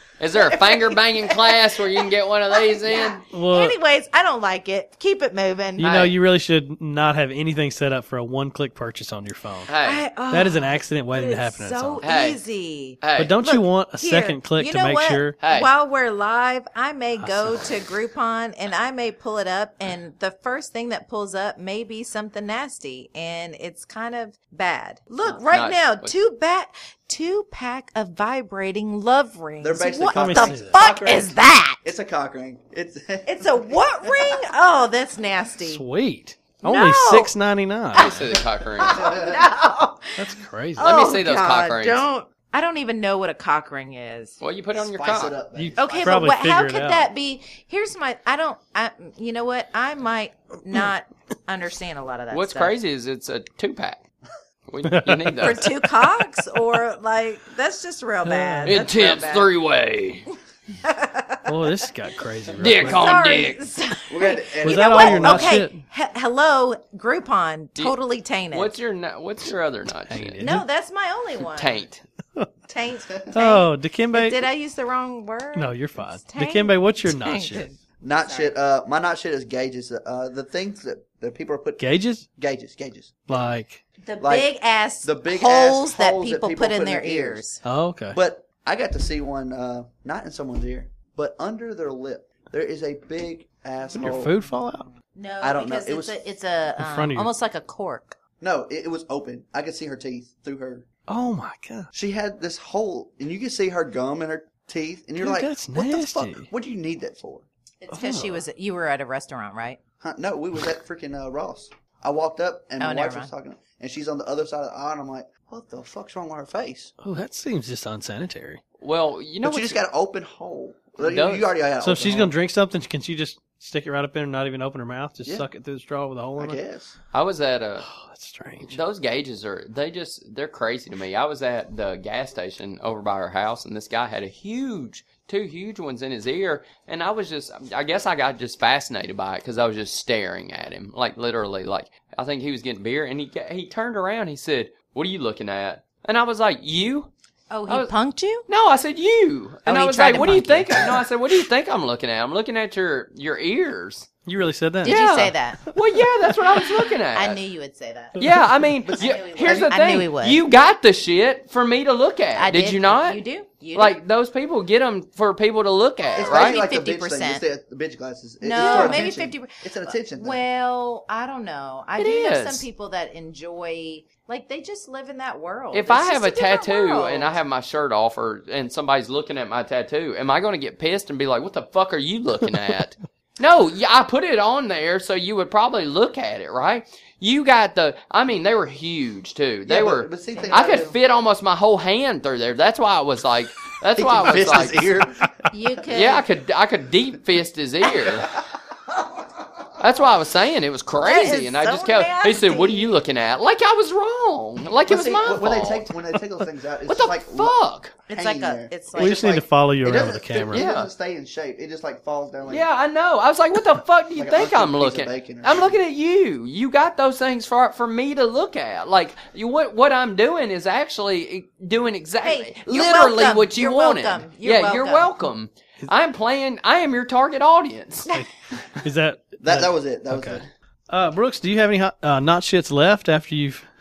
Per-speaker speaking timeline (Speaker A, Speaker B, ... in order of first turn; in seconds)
Speaker A: 0.2-3.2, 5.8-6.2, 9.7-10.0, 12.0-12.4, 13.0-13.4, 15.4-15.7, 25.2-26.1, 38.0-39.1, 40.8-42.0, 44.4-45.4, 52.3-54.0, 54.7-55.7, 58.7-60.3, 62.6-63.6, 68.5-70.4, 71.5-72.0, 118.8-119.8, 121.0-121.5, 127.1-127.9, 128.6-147.1, 147.7-147.9, 148.5-154.1, 154.8-157.4, 158.2-163.2, 163.8-166.6, 168.6-169.1, 172.0-172.7, 175.7-195.0, 195.9-198.4, 199.8-206.1, 206.9-207.9, 210.5-210.9, 212.5-228.1
Speaker B: 0.3-5.9, 9.7-31.8, 33.3-35.8, 36.6-37.4, 38.0-44.4, 45.8-52.8, 55.4-59.5, 60.8-61.9, 62.5-68.8, 70.4-71.8, 72.7-78.5, 84.0-87.6, 95.0-98.2, 107.8-109.8, 112.8-113.3, 147.5-148.5, 149.7-151.0, 154.8-155.6, 157.1-158.3, 158.9-160.4, 162.4-164.0, 166.1-167.4, 168.4-177.3, 190.3-190.9, 195.5-196.3, 201.0-203.0, 208.1-209.4, 222.2-225.1
Speaker C: 3.3-3.8, 5.8-9.7, 10.3-12.1, 13.2-15.4, 17.2-17.7, 30.1-30.8, 35.6-38.1, 40.2-41.0, 45.5-47.1, 54.9-56.1, 58.2-58.9, 61.5-63.3, 64.6-65.8, 70.1-70.7, 73.3-74.5, 75.5-77.7, 81.8-82.3, 83.3-83.8, 87.7-88.2, 93.9-94.9, 96.8-97.3, 101.1-101.9, 105.2-106.5, 107.9-108.4, 117.0-118.6, 121.8-126.6, 127.8-128.8, 154.3-155.0, 155.7-156.0, 209.0-210.7, 228.8-233.7
Speaker D: 29.6-34.4, 38.8-39.4, 44.8-46.2, 64.1-65.6, 78.0-83.5, 84.2-87.5, 88.1-94.4, 95.4-96.2, 98.4-100.9, 101.9-107.5, 110.0-116.9, 119.4-122.3, 126.4-127.0, 158.8-160.1, 166.2-170.4, 189.7-191.0, 193.9-195.5, 204.8-207.6, 208.1-212.7, 214.2-215.8, 229.4-230.4